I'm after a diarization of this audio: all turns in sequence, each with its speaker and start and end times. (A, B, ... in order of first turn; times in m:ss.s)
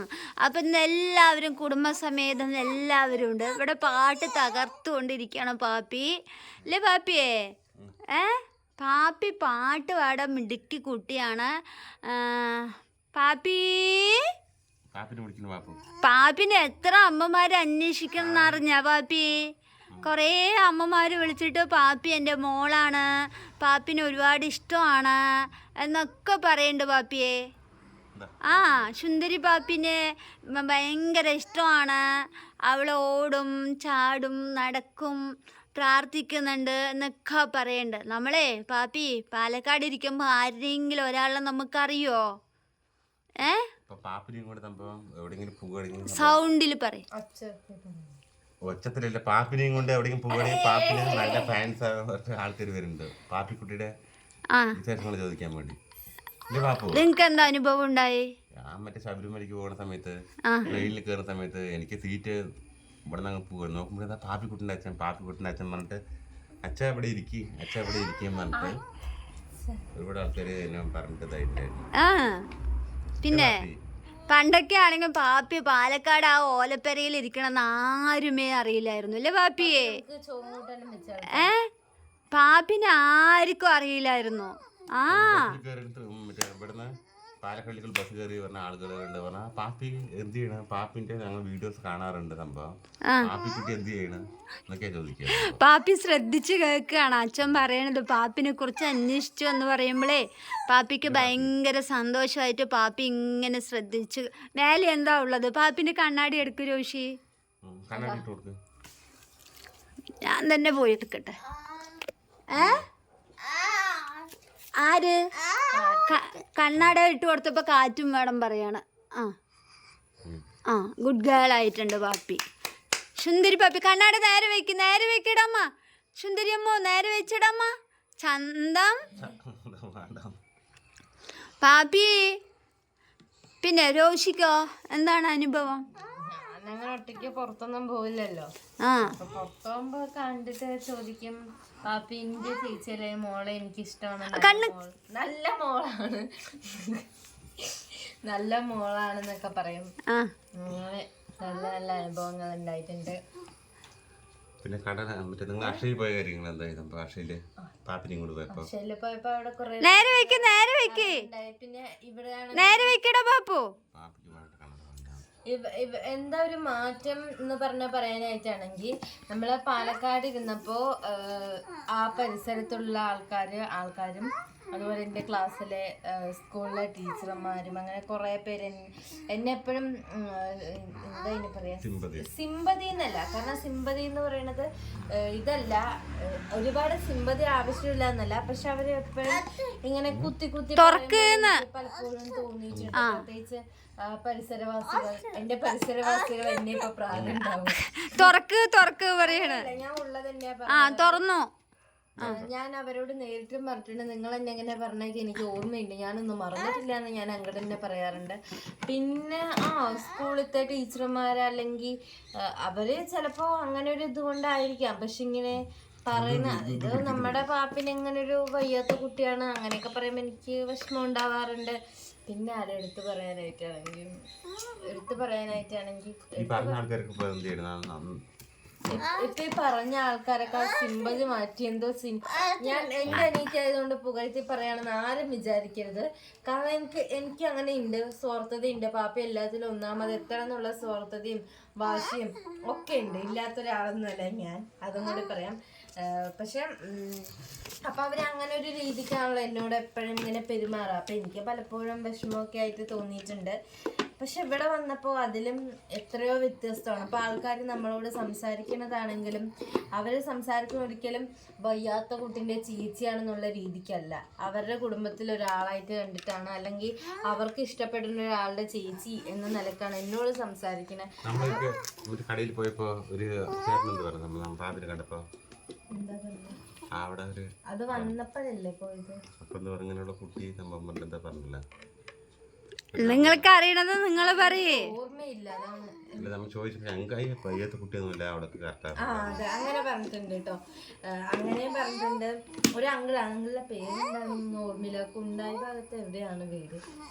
0:00.4-0:06.1 A
0:06.6-0:07.3 A
0:08.1-0:11.5 A
0:12.0-0:14.2 A
0:14.9-0:15.8 B
0:16.0-0:19.3 A
0:18.2-0:18.6 B
0:20.0-0:23.0 A
0:23.6-0:25.2 A
0:25.8-0:27.3 A
0:28.1-0:28.9 B
0:28.5-0:30.0 A
0:30.5-0:32.0 A
0:32.7-0:35.2 A
0:35.8-0:42.2 A
0:43.9-0:46.4 B
0:46.1-0:47.0 A
0:47.1-0:48.1 C
0:48.6-0:53.9 B
0:50.5-0:51.4 C
0:50.9-0:51.2 A
0:54.8-0:55.8 B
0:56.5-0:57.0 B
0:56.9-0:58.2 A
0:58.6-1:00.1 B
1:00.5-1:00.8 A
1:00.6-1:02.4 B
1:03.1-1:06.0 B
1:06.6-1:08.8 B
1:09.9-1:11.8 B
1:12.0-1:12.4 A
1:13.2-1:13.6 A
1:13.2-1:13.8 B
1:14.3-1:19.9 A
1:19.6-1:21.5 C
1:21.3-1:21.6 A
1:22.3-1:25.5 A
1:25.1-1:35.6 B
1:35.4-1:47.1 A
1:41.0-1:41.5 B
1:47.6-1:48.6 B
1:47.9-1:48.2 C
1:50.2-1:51.3 A
1:52.5-1:52.8 A
1:52.5-1:52.8 B
1:54.8-1:55.2 A
1:55.7-1:56.3 C
1:56.1-1:59.3 A
2:00.7-2:02.4 A
2:03.2-2:07.7 A
2:08.2-2:09.0 A
2:09.1-2:10.4 B
2:11.6-2:12.1 A
2:13.6-2:15.8 A
2:16.2-2:18.5 C
2:18.8-2:19.1 A
2:19.0-2:27.0 C
2:24.3-2:24.7 A
2:28.2-2:29.9 C
2:30.6-2:33.2 C
2:34.6-2:38.7 B
2:38.5-2:43.0 C
2:39.8-2:41.2 A
2:42.5-2:43.7 A
2:43.9-2:45.2 B
2:45.5-3:18.3 C
3:01.8-3:02.3 B
3:10.1-3:10.3 B
3:10.8-3:11.6 A
3:17.1-3:17.4 B
3:17.8-3:19.6 A
3:19.2-3:21.2 C
3:20.7-3:21.4 A
3:22.2-3:22.5 B
3:22.2-3:31.9 C
3:32.6-3:41.8 C
3:35.5-3:37.4 B
3:42.3-3:44.1 C
3:44.8-3:46.8 C
3:46.4-3:48.1 B
3:48.9-4:07.3 C
4:07.8-4:13.5 C
4:14.2-4:31.6 C
4:31.2-4:35.2 B
4:35.9-4:36.6 C
4:36.9-4:38.1 B
4:37.7-4:39.2 C
4:39.4-4:41.6 B
4:42.9-4:43.5 B
4:43.0-4:44.8 A
4:44.1-4:46.3 C
4:46.2-4:49.4 B
4:49.0-4:56.8 C